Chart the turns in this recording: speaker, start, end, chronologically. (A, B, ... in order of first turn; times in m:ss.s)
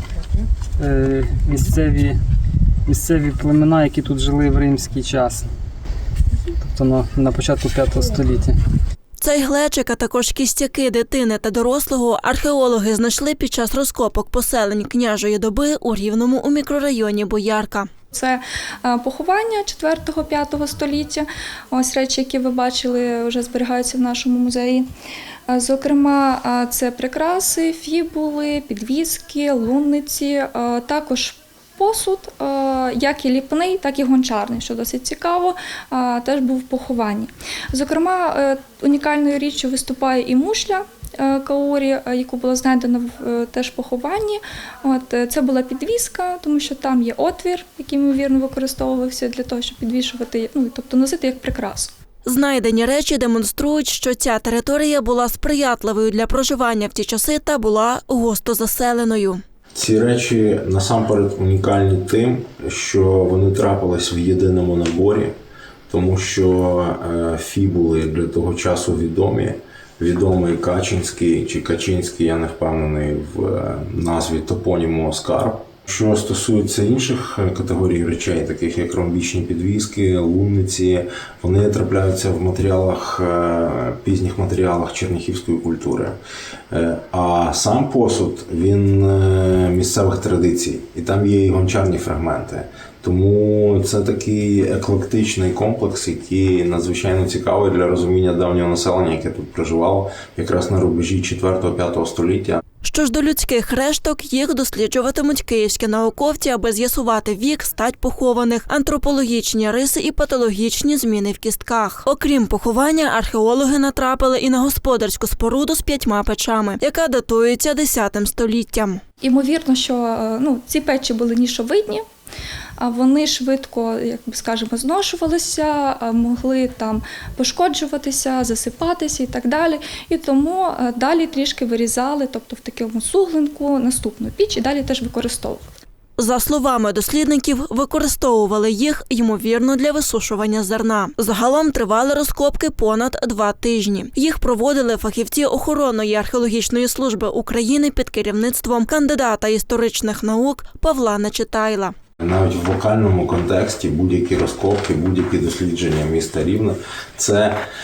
0:00.8-0:02.1 A
0:02.9-0:05.4 A
0:06.7-0:08.5 A
0:09.2-0:17.9 B
0:18.1-0:24.8 C
0:25.5-0:51.9 C
0:52.2-0:59.4 B
0:59.7-1:05.3 D
1:05.9-1:26.2 D
1:26.7-1:42.6 D
1:42.8-1:59.0 B
1:59.2-2:02.0 C
2:02.8-2:15.6 C
2:16.2-2:31.9 B
2:32.2-2:37.6 D